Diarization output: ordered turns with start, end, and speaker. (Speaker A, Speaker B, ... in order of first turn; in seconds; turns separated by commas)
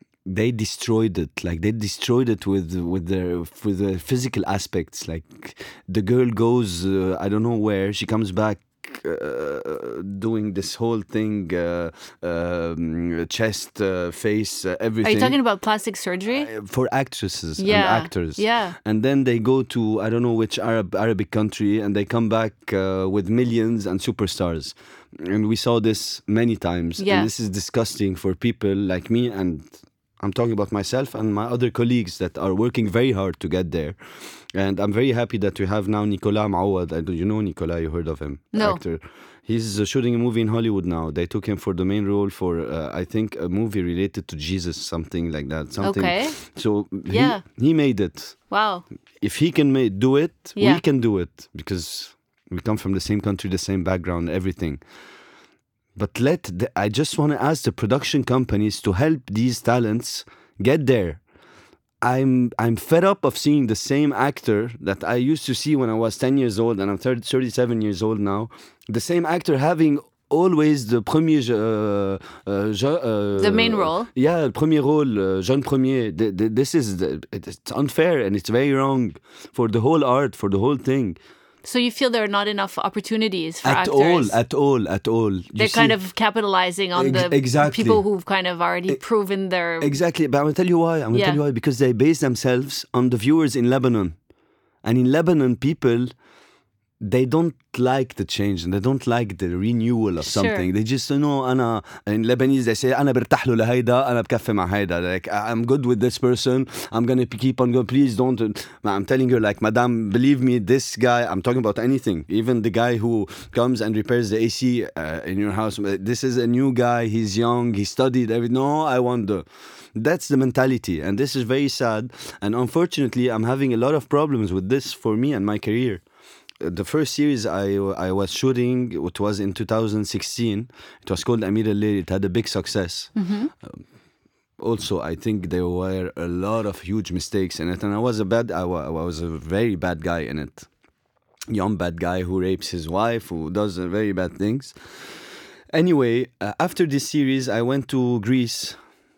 Speaker A: 0.2-15.4, Speaker B: 15.0-16.5, Speaker A: 16.3-48.5, Speaker B: 17.6-18.8, Speaker B: 27.0-27.3, Speaker B: 38.5-38.8, Speaker B: 45.8-47.4, Speaker B: 48.5-48.8, Speaker A: 49.2-54.8, Speaker B: 50.5-50.8, Speaker A: 55.9-61.2, Speaker A: 62.0-81.2, Speaker B: 73.4-74.1, Speaker B: 81.6-84.4, Speaker A: 83.6-86.0, Speaker B: 85.6-90.0, Speaker A: 86.9-88.0, Speaker A: 89.8-94.2, Speaker B: 91.1-91.4, Speaker A: 94.8-96.2, Speaker A: 97.0-126.0, Speaker B: 100.2-100.7, Speaker A: 126.6-133.8, Speaker B: 133.1-133.5, Speaker A: 134.6-140.7, Speaker A: 141.5-148.8